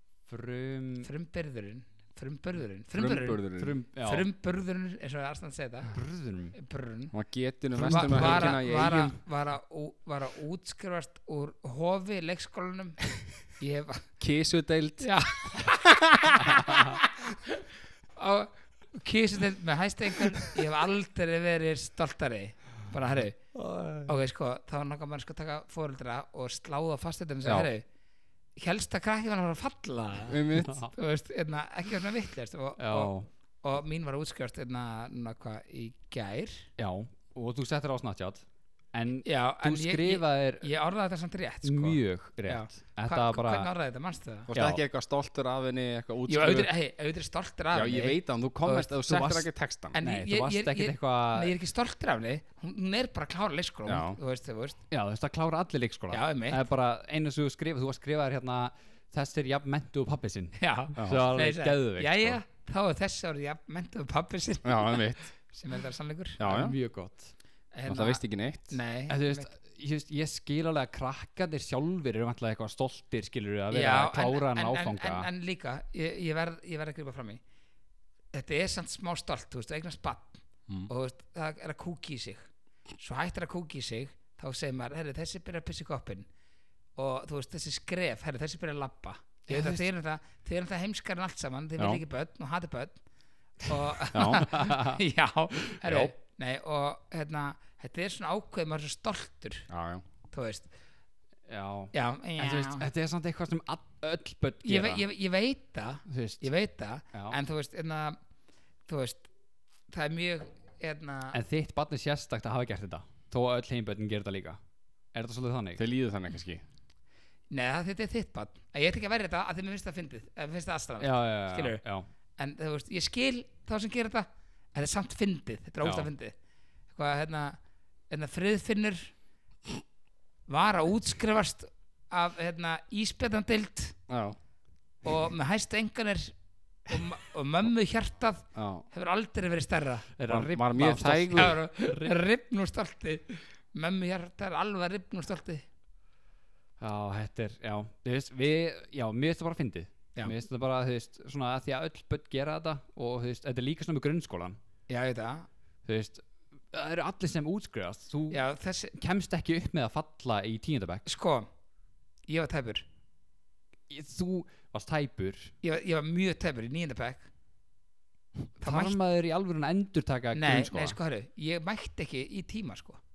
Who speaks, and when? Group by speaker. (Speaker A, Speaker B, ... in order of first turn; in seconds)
Speaker A: 0.3-1.1, 3.6-4.3, 5.9-6.5, 7.8-8.6, 32.8-33.3, 36.8-40.7, 41.6-43.7, 44.5-44.8, 48.6-49.5, 50.0-51.5, 54.9-62.4, 66.4-67.3, 69.1-75.3, 89.5-89.8, 94.4-95.0, 101.5-105.0, 106.1-106.4, 111.3-114.6, 115.1-115.8, 121.0-122.0, 140.2-142.2, 146.8-154.6, 155.8-158.4, 158.9-161.0, 163.9-165.5, 168.6-171.0
Speaker B: 1.0-3.4, 4.0-6.0, 6.5-7.1, 7.8-14.1, 15.0-17.6, 18.2-23.4, 24.1-27.8, 28.6-36.7, 39.2-44.5, 46.3-48.2, 49.9-54.8, 56.1-56.6, 60.6-66.4, 67.7-69.5, 73.7-77.4, 78.3-82.5, 83.0-86.3, 87.0-93.0, 93.6-99.7, 100.3-100.7, 101.9-102.9, 104.6-108.2, 108.9-109.3, 109.9-111.4, 117.5-121.8, 122.4-126.3, 126.9-127.6, 128.1-129.1, 130.5-134.0, 135.0-136.3, 136.9-140.1, 141.3-145.6, 154.9-155.5, 158.3-158.9, 161.0-161.5, 162.3-162.8, 165.6-167.3, 168.6-169.0, 170.3-173.0
Speaker C: 2.9-3.7, 7.1-9.2, 14.2-15.8, 27.4-27.7, 30.3-30.8, 44.5-46.7, 47.7-50.0, 53.9-54.2, 61.0-61.2, 64.6-65.3, 66.4-66.8, 67.9-68.7, 94.1-94.5, 99.7-100.0, 115.8-116.6, 134.1-134.4, 138.5-138.9, 140.3-141.6